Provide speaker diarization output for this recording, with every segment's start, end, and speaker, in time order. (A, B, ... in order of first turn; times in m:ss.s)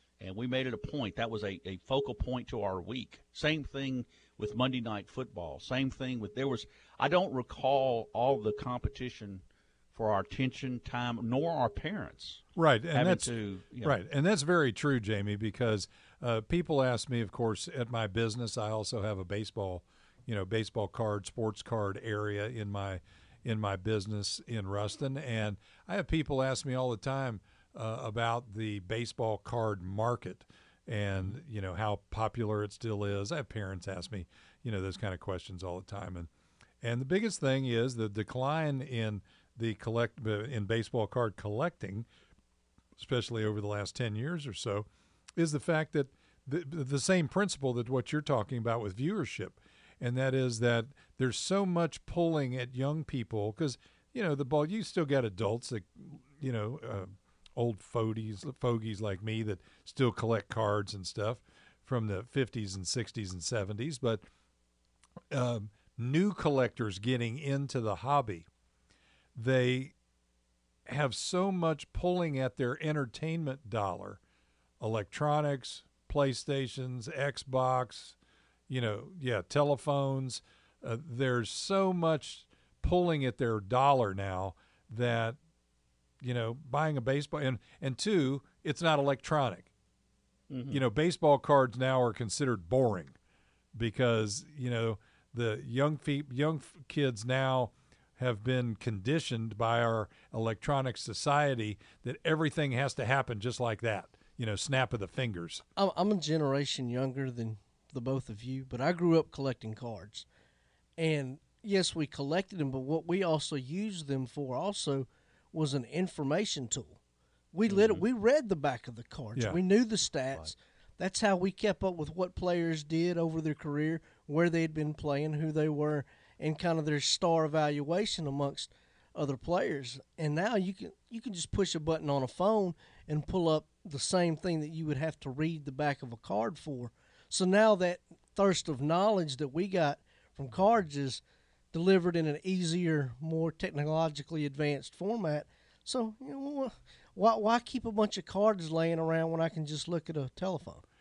0:00.2-0:09.4 A
0:09.9-0:14.0 A
0:12.6-0:36.3 B
0:36.8-0:42.1 B
0:43.0-1:04.2 B
1:05.3-1:08.5 B
1:09.4-1:09.9 B
1:10.9-1:14.2 B
1:14.8-1:18.2 B
1:18.7-1:25.4 B
1:26.2-1:29.7 B
1:30.5-1:30.8 A
1:30.7-1:33.1 B
1:33.7-1:45.6 B
1:45.8-1:50.2 C
1:51.0-1:57.0 C
1:57.5-2:21.2 C
1:57.7-1:58.0 A
1:59.3-1:59.6 B
2:21.7-2:30.8 C